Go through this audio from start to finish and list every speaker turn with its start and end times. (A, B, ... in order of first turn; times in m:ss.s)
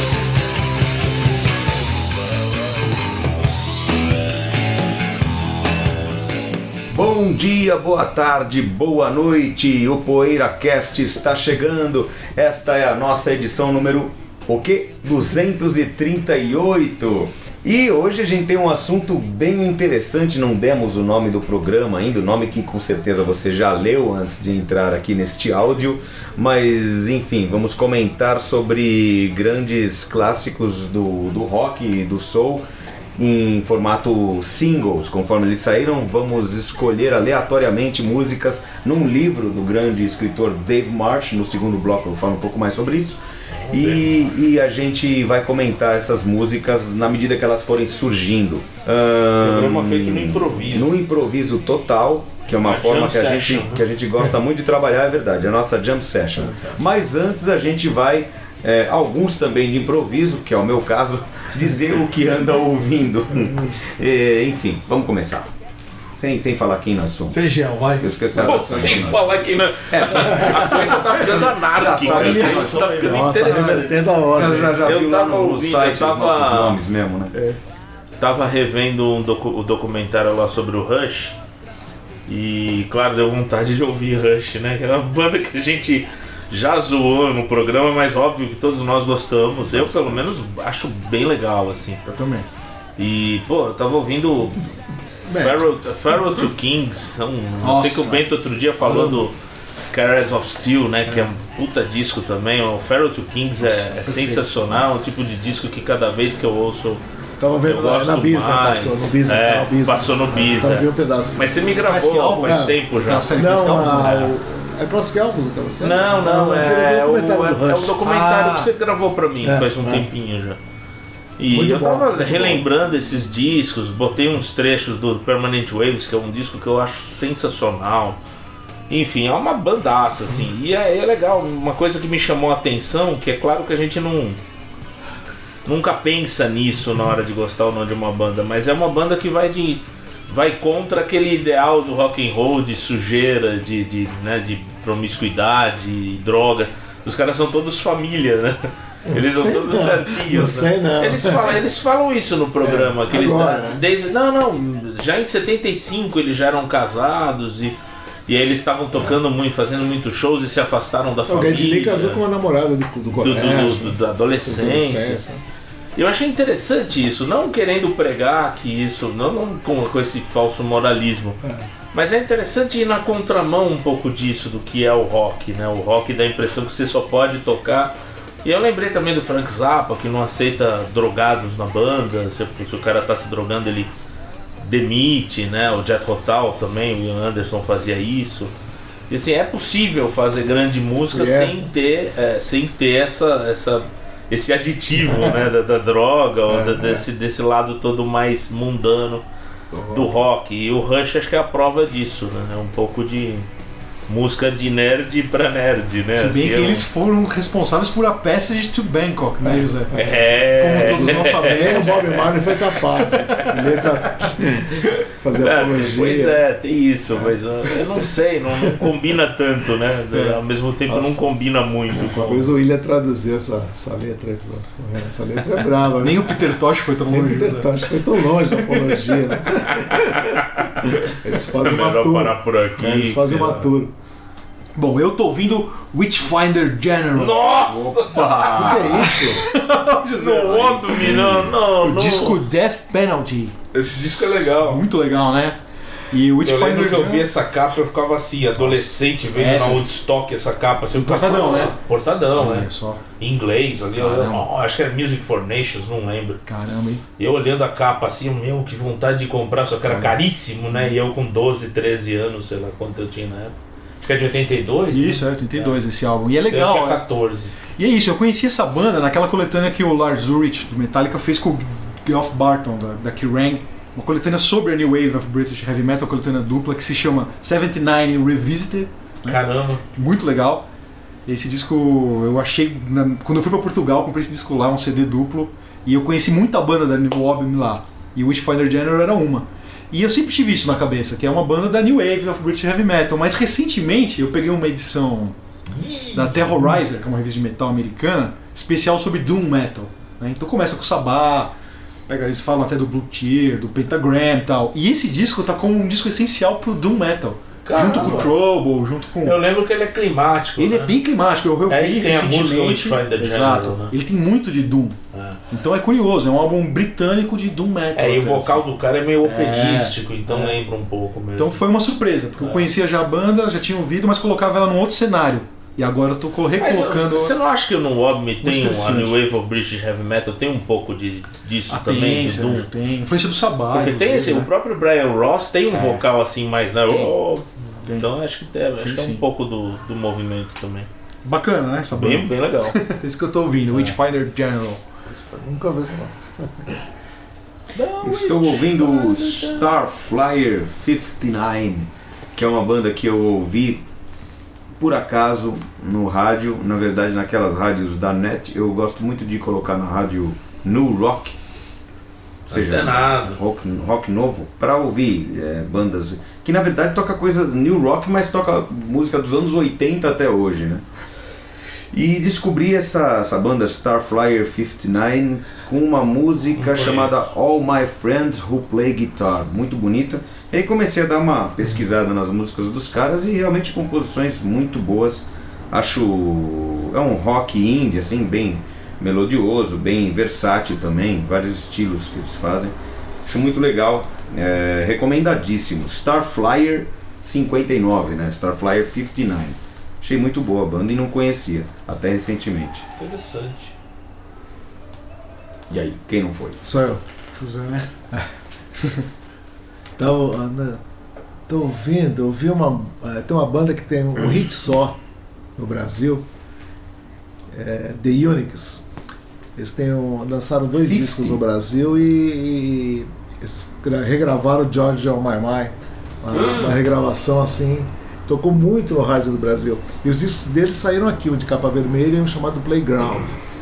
0:06.9-0:32.6 A
0:33.2-0:43.2 A
0:43.5-0:44.1 B
0:43.7-1:05.5 A
0:49.4-0:50.9 B
0:52.6-0:53.8 B
0:56.4-0:56.8 C
1:06.1-1:11.1 A
1:07.3-1:08.2 D
1:08.3-1:09.3 C
1:08.4-1:14.2 B
1:10.2-1:10.6 C
1:11.2-1:13.3 D
1:12.0-1:17.3 A
1:12.2-1:14.8 C
1:14.8-1:16.8 B
1:18.2-1:21.4 B
1:22.3-1:32.0 B
1:29.6-1:30.3 A
1:32.0-1:32.5 D
1:33.0-1:34.6 B
1:35.3-1:39.4 B
1:37.6-1:38.2 D
1:38.8-1:39.2 D
1:39.9-1:47.0 B
1:43.6-1:44.9 D
1:47.4-1:51.6 C
1:47.7-1:53.3 B
1:51.8-1:54.2 D
1:52.4-1:52.8 C
1:53.3-1:58.0 C
1:54.0-1:54.3 B
1:55.8-2:00.6 B
1:58.0-1:58.7 D
1:59.4-2:00.1 C
2:01.4-2:08.2 B
2:01.5-2:02.6 C
2:08.9-2:14.4 B
2:15.7-2:42.2 B
2:29.1-2:31.6 C
2:32.6-2:33.8 C
2:41.3-2:45.4 C
2:43.2-2:45.2 B
2:46.0-2:51.4 B
2:51.9-2:57.9 B
2:58.4-3:03.9 B
3:04.6-3:08.5 B
3:09.1-3:19.2 B
3:11.1-3:11.7 C
3:16.5-3:17.1 C
3:19.7-3:20.1 C
3:19.9-3:23.5 B
3:24.1-3:26.9 B
3:26.1-3:32.2 D
3:29.9-3:30.2 C
3:29.9-3:32.3 B
3:30.8-3:36.4 C
3:33.1-3:33.6 D
3:35.3-3:42.5 B
3:40.1-3:40.4 D
3:40.9-3:41.2 C
3:41.9-3:46.4 C
3:46.0-3:47.7 D
3:47.1-3:50.2 C
3:49.7-3:50.9 B
3:51.0-3:53.9 C
3:51.6-3:53.7 B
3:54.8-3:57.5 D
3:57.1-3:58.7 B
3:57.7-3:59.2 A
3:58.5-3:59.4 C
3:59.3-4:05.6 D
4:00.1-4:02.4 B
4:03.8-4:04.8 B
4:06.1-4:07.3 D
4:06.4-4:16.4 B
4:08.6-4:09.8 D
4:11.0-4:11.7 D
4:12.4-4:13.0 D
4:13.9-4:14.4 D
4:16.4-4:17.0 D
4:17.2-4:25.8 B
4:19.9-4:20.2 D
4:24.9-4:27.0 D
4:26.5-4:27.6 B
4:27.8-4:39.4 D
4:39.2-4:39.8 B
4:39.9-4:40.7 D
4:41.2-4:55.4 D
4:55.8-4:56.4 B
4:56.1-5:01.5 D
5:02.1-5:09.4 D
5:07.6-5:08.4 B
5:09.2-5:11.0 B
5:10.6-5:15.0 D
5:11.7-5:13.9 B
5:15.1-5:15.4 B
5:15.5-5:18.7 D
5:17.9-5:21.6 B
5:19.2-5:20.6 D
5:21.4-5:27.4 D
5:22.4-5:22.7 B
5:26.6-5:32.7 B
5:28.4-5:29.2 D
5:31.7-5:34.5 D
5:33.7-5:40.9 B
5:35.7-5:36.0 D
5:36.9-5:37.1 D
5:38.8-5:39.2 D
5:41.2-5:44.8 D
5:41.9-5:42.8 B
5:43.7-5:44.0 B
5:45.1-5:46.8 C
5:47.7-5:49.7 B
5:48.0-5:53.8 A
5:54.8-6:01.4 A
6:02.5-6:03.4 B
6:02.5-6:10.8 A
6:11.9-6:32.8 A
6:16.6-6:17.3 B
6:33.2-6:42.8 A
6:43.0-6:43.7 B
6:45.7-6:46.6 A
6:46.6-6:47.0 C
6:47.4-6:47.9 D
6:50.0-6:50.8 C
6:51.5-6:55.0 C
6:55.6-6:56.2 C
6:57.5-6:58.9 C
6:59.6-7:13.4 C
7:00.8-7:01.4 A
7:06.3-7:06.8 B